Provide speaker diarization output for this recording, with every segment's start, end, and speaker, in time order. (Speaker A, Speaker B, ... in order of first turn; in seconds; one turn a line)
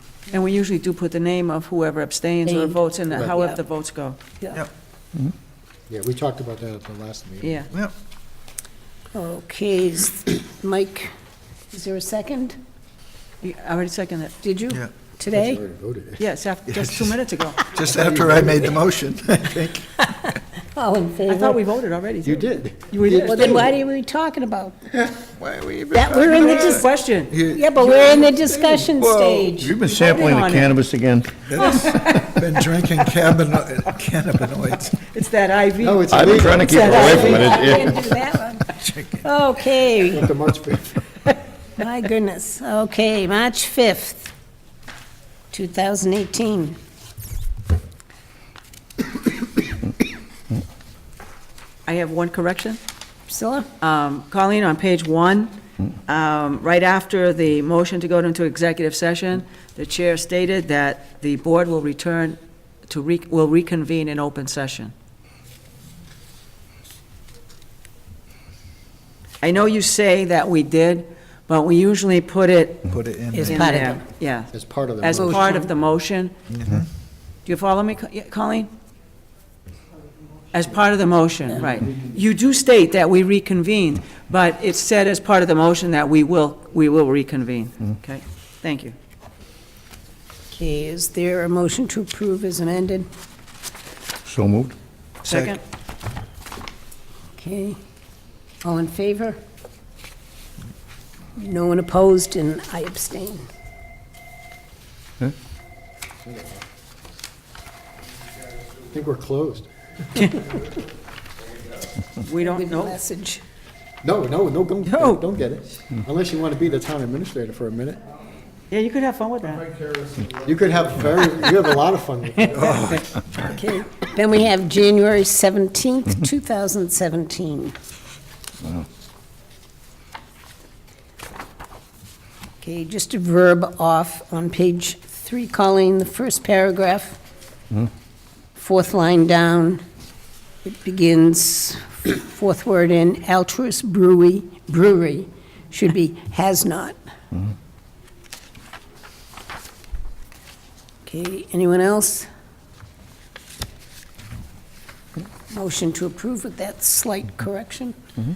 Speaker A: 0.3-4.2
Speaker B: 2.5-3.6
Speaker C: 5.9-7.6
Speaker A: 7.4-7.7
Speaker B: 9.1-11.1
Speaker B: 11.7-12.6
Speaker A: 13.4-14.3
Speaker B: 14.4-15.6
Speaker C: 15.3-16.2
Speaker A: 16.2-17.6
Speaker D: 16.7-17.1
Speaker D: 17.7-20.3
Speaker C: 17.8-18.7
Speaker B: 20.1-21.6
Speaker A: 21.3-23.7
Speaker C: 22.2-23.7
Speaker B: 23.1-24.8
Speaker D: 25.1-29.5
Speaker B: 25.9-26.9
Speaker A: 26.2-27.3
Speaker B: 27.5-29.8
Speaker E: 29.5-32.0
Speaker A: 29.8-30.7
Speaker D: 31.4-35.0
Speaker A: 31.5-32.6
Speaker A: 35.0-37.8
Speaker C: 35.8-37.4
Speaker E: 36.1-38.0
Speaker B: 36.9-40.3
Speaker D: 38.7-39.3
Speaker C: 40.1-40.9
Speaker B: 41.8-44.3
Speaker B: 45.5-46.8
Speaker A: 51.9-52.8
Speaker B: 53.3-53.7
Speaker A: 53.8-55.5
Speaker A: 56.1-64.9
Speaker A: 69.4-72.9
Speaker D: 72.9-73.6
Speaker B: 73.3-74.0
Speaker A: 73.4-74.5
Speaker C: 74.5-75.5
Speaker A: 75.0-76.3
Speaker B: 75.1-75.7
Speaker D: 76.5-76.9
Speaker A: 77.5-78.7
Speaker A: 80.5-88.9
Speaker B: 90.5-93.1
Speaker E: 94.2-94.7
Speaker A: 95.2-95.6
Speaker D: 95.2-95.5
Speaker B: 97.3-97.8
Speaker B: 98.6-99.4
Speaker B: 101.3-103.5
Speaker C: 106.2-106.6
Speaker C: 108.8-109.7
Speaker A: 112.2-113.0
Speaker B: 112.3-113.4
Speaker C: 114.0-118.0
Speaker A: 114.8-115.2
Speaker A: 118.7-119.8
Speaker C: 120.3-122.6
Speaker A: 122.4-123.1
Speaker D: 122.5-123.0
Speaker B: 123.4-127.7
Speaker B: 132.6-137.2
Speaker B: 138.5-139.8
Speaker B: 140.6-146.9
Speaker B: 151.0-152.3
Speaker B: 155.5-158.0